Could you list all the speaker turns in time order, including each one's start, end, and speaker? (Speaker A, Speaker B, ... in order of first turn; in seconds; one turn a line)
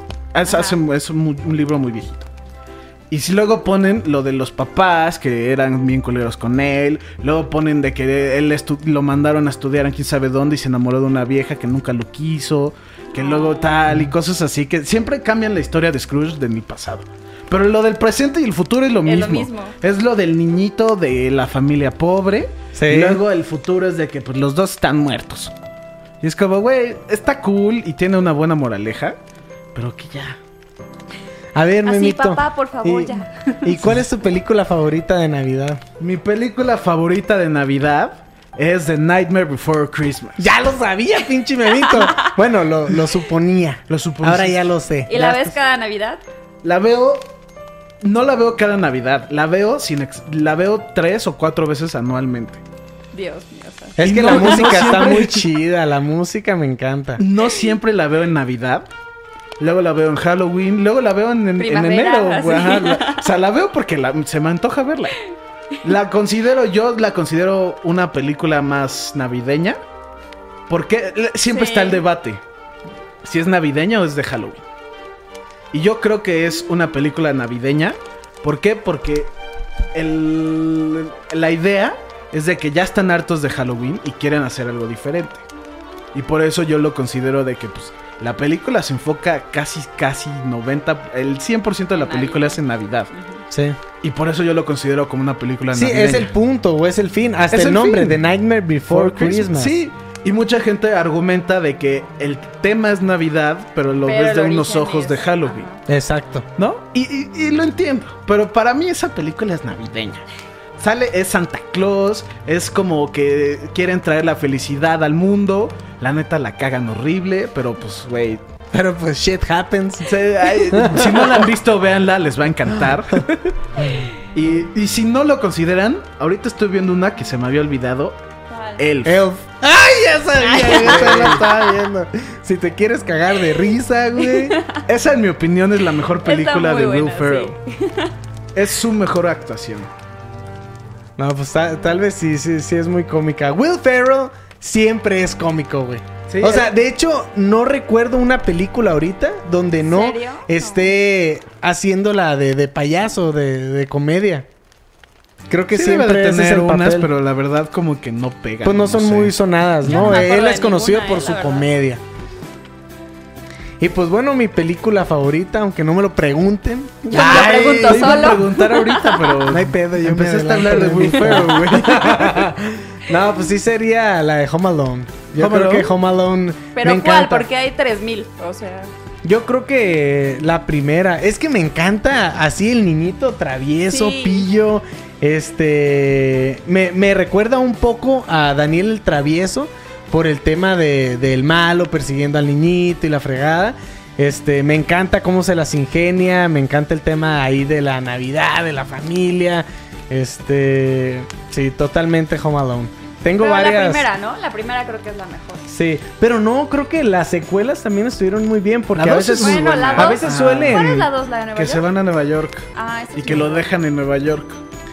Speaker A: 0.3-2.3
Speaker B: 0.5-0.8
Speaker A: 3.1-25.5
Speaker B: 13.2-13.8
Speaker B: 19.1-19.8
Speaker C: 22.7-23.2
Speaker A: 26.2-29.2
Speaker A: 29.7-30.4
Speaker C: 31.6-35.8
Speaker B: 31.9-33.8
Speaker A: 36.0-40.5
Speaker C: 40.4-45.6
Speaker B: 41.8-42.3
Speaker A: 43.9-44.6
Speaker B: 45.1-46.2
Speaker A: 46.6-47.4
Speaker A: 48.0-52.6
Speaker B: 53.1-54.9
Speaker C: 54.0-57.2
Speaker A: 54.0-55.5
Speaker A: 57.2-58.9
Speaker A: 59.6-65.2
Speaker B: 61.6-63.3
Speaker A: 65.8-69.8
Speaker A: 70.7-72.4
Speaker B: 71.5-72.0
Speaker A: 73.2-74.6
Speaker A: 75.7-79.3
Speaker A: 79.9-85.5
Speaker A: 86.1-93.1
Speaker B: 92.0-92.6
Speaker B: 93.1-93.4
Speaker C: 93.5-93.8
Speaker A: 94.0-96.3
Speaker C: 95.7-99.8
Speaker A: 97.5-98.2
Speaker A: 98.9-105.7
Speaker B: 104.1-105.8
Speaker C: 105.9-106.5
Speaker A: 106.6-110.2
Speaker A: 110.8-118.4
Speaker C: 118.7-121.5
Speaker A: 120.0-123.5
Speaker A: 124.3-128.2
Speaker B: 128.5-128.8
Speaker A: 128.8-129.2
Speaker C: 129.1-134.6
Speaker B: 130.4-131.6
Speaker A: 130.8-131.4
Speaker B: 134.2-134.8
Speaker A: 134.9-137.6
Speaker B: 136.2-138.1
Speaker A: 138.6-139.9
Speaker C: 141.2-154.5
Speaker A: 146.3-146.7
Speaker B: 149.8-150.9
Speaker C: 155.5-157.1
Speaker A: 155.7-159.3
Speaker C: 158.6-162.0
Speaker B: 159.8-161.7
Speaker C: 163.8-168.4
Speaker B: 167.1-169.2
Speaker A: 167.2-172.5
Speaker C: 169.5-177.5
Speaker A: 175.4-175.9
Speaker B: 176.8-178.9
Speaker C: 179.2-204.1
Speaker B: 183.9-184.5
Speaker B: 203.4-205.7
Speaker C: 205.7-211.1
Speaker A: 208.9-210.8
Speaker B: 209.3-211.9
Speaker A: 211.6-214.6
Speaker B: 212.8-213.7